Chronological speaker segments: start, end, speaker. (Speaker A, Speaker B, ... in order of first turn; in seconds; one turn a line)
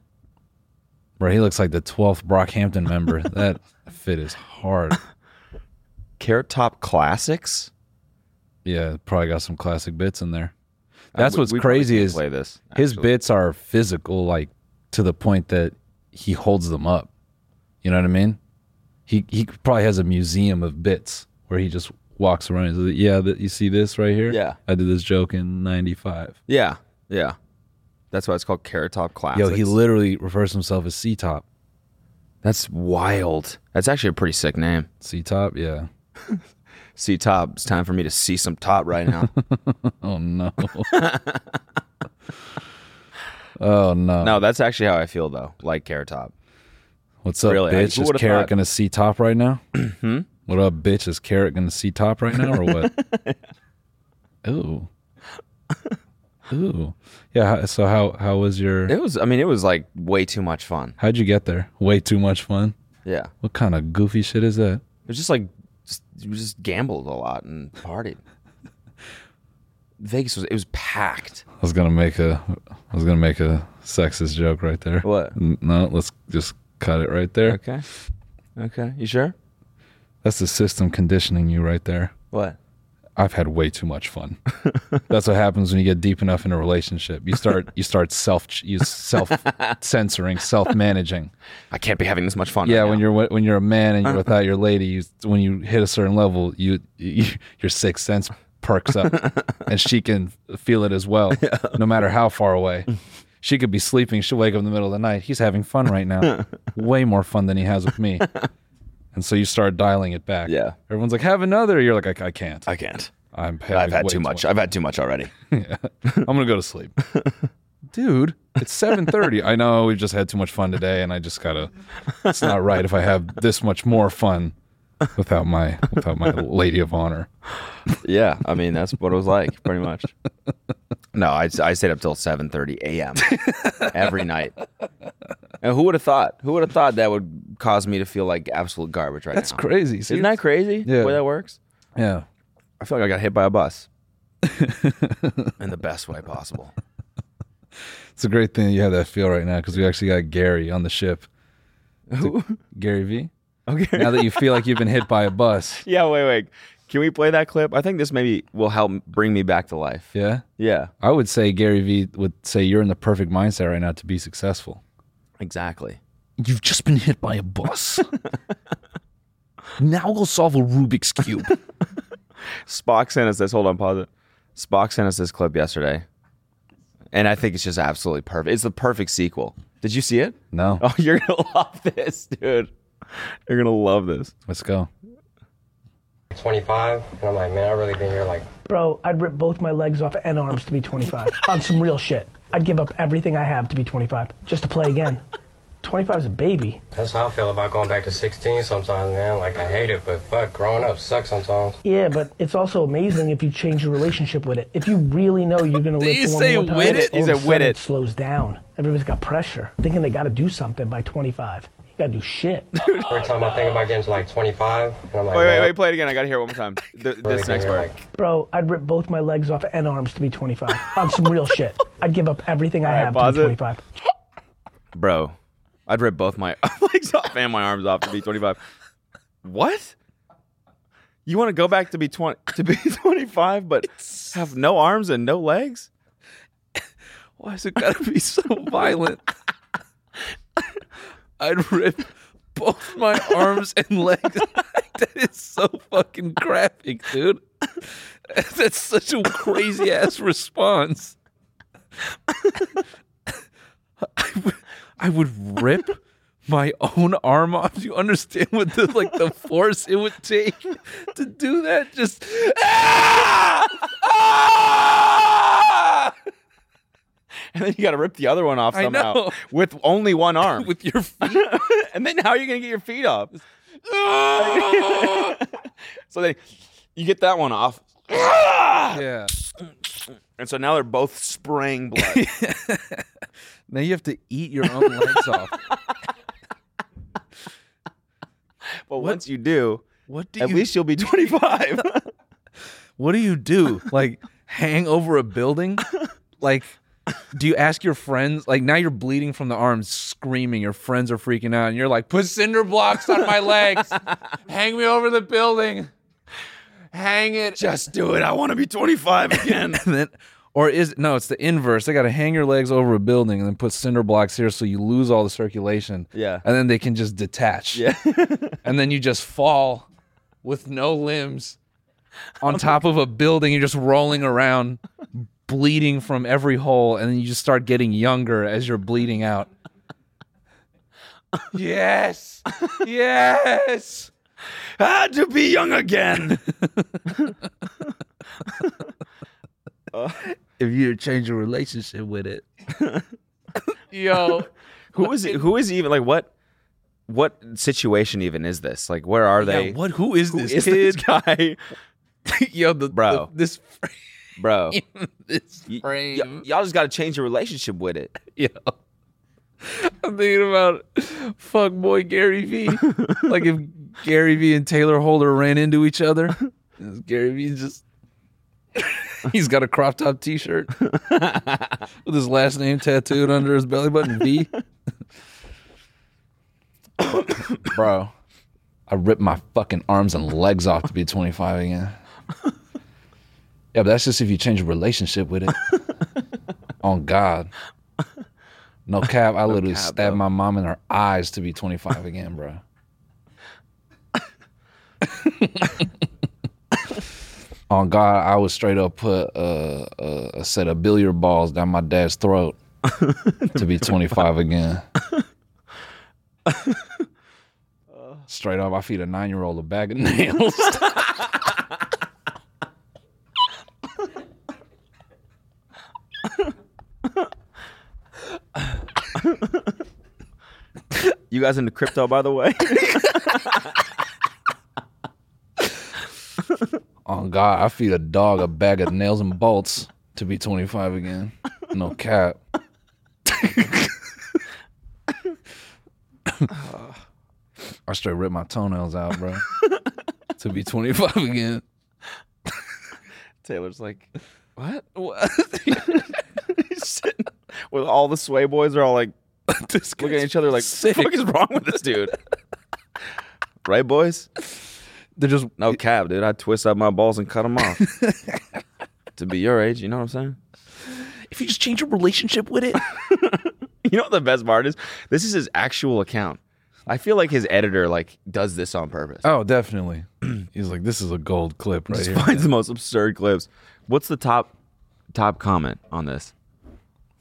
Speaker A: 1.2-5.0
Speaker B: 6.2-7.7
Speaker A: 8.7-10.5
Speaker B: 11.1-13.1
Speaker A: 11.2-12.2
Speaker A: 12.8-17.1
Speaker A: 17.8-18.4
Speaker A: 19.1-26.4
Speaker B: 24.3-24.6
Speaker B: 26.5-27.4
Speaker B: 28.1-29.7
Speaker A: 29.3-31.4
Speaker B: 32.4-34.9
Speaker A: 35.0-35.9
Speaker B: 37.0-39.3
Speaker A: 39.4-40.9
Speaker B: 40.9-41.4
Speaker A: 43.6-44.4
Speaker B: 44.2-46.3
Speaker A: 47.2-49.6
Speaker B: 47.5-48.5
Speaker B: 49.8-50.3
Speaker A: 50.5-52.9
Speaker B: 52.4-53.4
Speaker A: 54.4-54.9
Speaker A: 56.5-58.9
Speaker B: 58.9-61.0
Speaker A: 61.0-62.8
Speaker B: 63.0-63.3
Speaker A: 63.4-64.8
Speaker B: 65.1-68.2
Speaker B: 70.0-71.5
Speaker A: 71.6-77.6
Speaker B: 75.0-75.3
Speaker B: 77.5-77.8
Speaker B: 78.6-79.3
Speaker A: 80.2-82.1
Speaker B: 82.3-82.6
Speaker A: 83.2-84.4
Speaker A: 85.1-91.3
Speaker B: 89.2-89.8
Speaker B: 91.7-93.0
Speaker A: 92.7-102.9
Speaker B: 101.4-101.8
Speaker A: 103.4-108.3
Speaker A: 109.1-112.7
Speaker B: 110.5-110.8
Speaker B: 112.7-113.1
Speaker A: 113.3-114.5
Speaker B: 113.7-115.3
Speaker A: 115.5-116.9
Speaker A: 117.9-121.7
Speaker A: 122.2-124.5
Speaker A: 125.2-127.3
Speaker B: 128.0-130.1
Speaker B: 131.1-134.6
Speaker A: 133.3-134.0
Speaker B: 135.6-141.6
Speaker A: 139.3-141.2
Speaker A: 142.0-142.3
Speaker B: 142.8-143.9
Speaker A: 144.4-145.5
Speaker B: 145.6-146.8
Speaker A: 148.2-151.3
Speaker B: 152.1-152.6
Speaker A: 152.2-153.3
Speaker B: 153.7-154.7
Speaker A: 154.0-155.8
Speaker B: 155.8-160.9
Speaker A: 160.1-160.4
Speaker A: 161.0-164.8
Speaker B: 165.4-166.0
Speaker A: 166.4-168.1
Speaker A: 169.8-171.6
Speaker B: 172.7-176.1
Speaker B: 177.1-182.7
Speaker A: 180.5-180.8
Speaker B: 183.5-184.3
Speaker A: 184.5-184.9
Speaker C: 186.3-188.5
Speaker D: 188.7-195.2
Speaker D: 195.8-196.8
Speaker C: 196.9-201.8
Speaker D: 201.8-212.7
Speaker A: 206.0-207.2
Speaker B: 206.8-207.8
Speaker B: 212.8-213.7
Speaker C: 213.1-215.8
Speaker B: 215.3-217.9
Speaker C: 217.2-218.0
Speaker D: 218.2-223.8
Speaker B: 222.8-223.6
Speaker B: 224.9-225.3
Speaker B: 225.9-228.6
Speaker B: 229.4-229.9
Speaker B: 231.3-235.9
Speaker A: 234.1-234.4
Speaker A: 237.4-239.2
Speaker A: 241.4-251.2
Speaker A: 254.0-266.1
Speaker B: 267.5-270.7
Speaker A: 268.7-269.4
Speaker A: 270.5-271.6
Speaker B: 271.2-273.3
Speaker A: 273.9-275.4
Speaker B: 274.4-275.5
Speaker B: 276.1-276.4
Speaker B: 276.9-279.0
Speaker A: 278.9-279.3
Speaker B: 280.4-282.3
Speaker A: 282.0-283.1
Speaker A: 283.7-285.6
Speaker B: 288.9-289.8
Speaker A: 290.1-290.7
Speaker B: 290.4-292.1
Speaker A: 293.0-295.9
Speaker A: 296.4-296.8
Speaker A: 297.3-305.9
Speaker A: 306.9-307.6
Speaker B: 307.6-309.8
Speaker A: 309.4-317.8
Speaker B: 316.1-316.4
Speaker B: 317.7-318.6
Speaker A: 318.6-319.9
Speaker A: 320.4-321.6
Speaker A: 322.4-329.5
Speaker A: 331.5-334.1
Speaker B: 334.8-336.4
Speaker A: 336.5-337.1
Speaker B: 339.9-340.3
Speaker A: 340.6-342.4
Speaker B: 342.8-343.0
Speaker A: 343.7-345.5
Speaker B: 344.9-346.3
Speaker B: 347.1-349.8
Speaker A: 349.4-351.0
Speaker B: 350.3-351.6
Speaker A: 352.3-356.5
Speaker B: 352.9-353.3
Speaker B: 354.4-354.8
Speaker B: 355.7-358.1
Speaker A: 358.3-358.7
Speaker A: 359.6-367.8
Speaker A: 368.8-370.8
Speaker A: 372.1-374.5
Speaker A: 377.6-378.1
Speaker A: 378.9-382.0
Speaker A: 383.7-385.7
Speaker A: 386.8-387.5
Speaker A: 388.9-392.6
Speaker B: 389.5-390.2
Speaker A: 395.0-395.8
Speaker A: 397.7-402.6
Speaker A: 403.5-404.9
Speaker A: 408.3-411.3
Speaker B: 421.3-423.6
Speaker A: 427.1-432.4
Speaker A: 433.2-433.9
Speaker B: 436.5-437.0
Speaker A: 437.9-439.5
Speaker A: 440.4-441.6
Speaker B: 443.4-444.9
Speaker A: 444.9-446.1
Speaker B: 445.7-449.1
Speaker A: 449.5-451.1
Speaker B: 450.0-452.2
Speaker B: 453.6-454.3
Speaker A: 455.2-455.8
Speaker B: 455.6-457.9
Speaker A: 457.8-458.4
Speaker B: 459.2-460.4
Speaker A: 461.3-462.8
Speaker B: 462.9-469.2
Speaker A: 469.2-472.5
Speaker B: 471.9-474.5
Speaker B: 475.1-476.3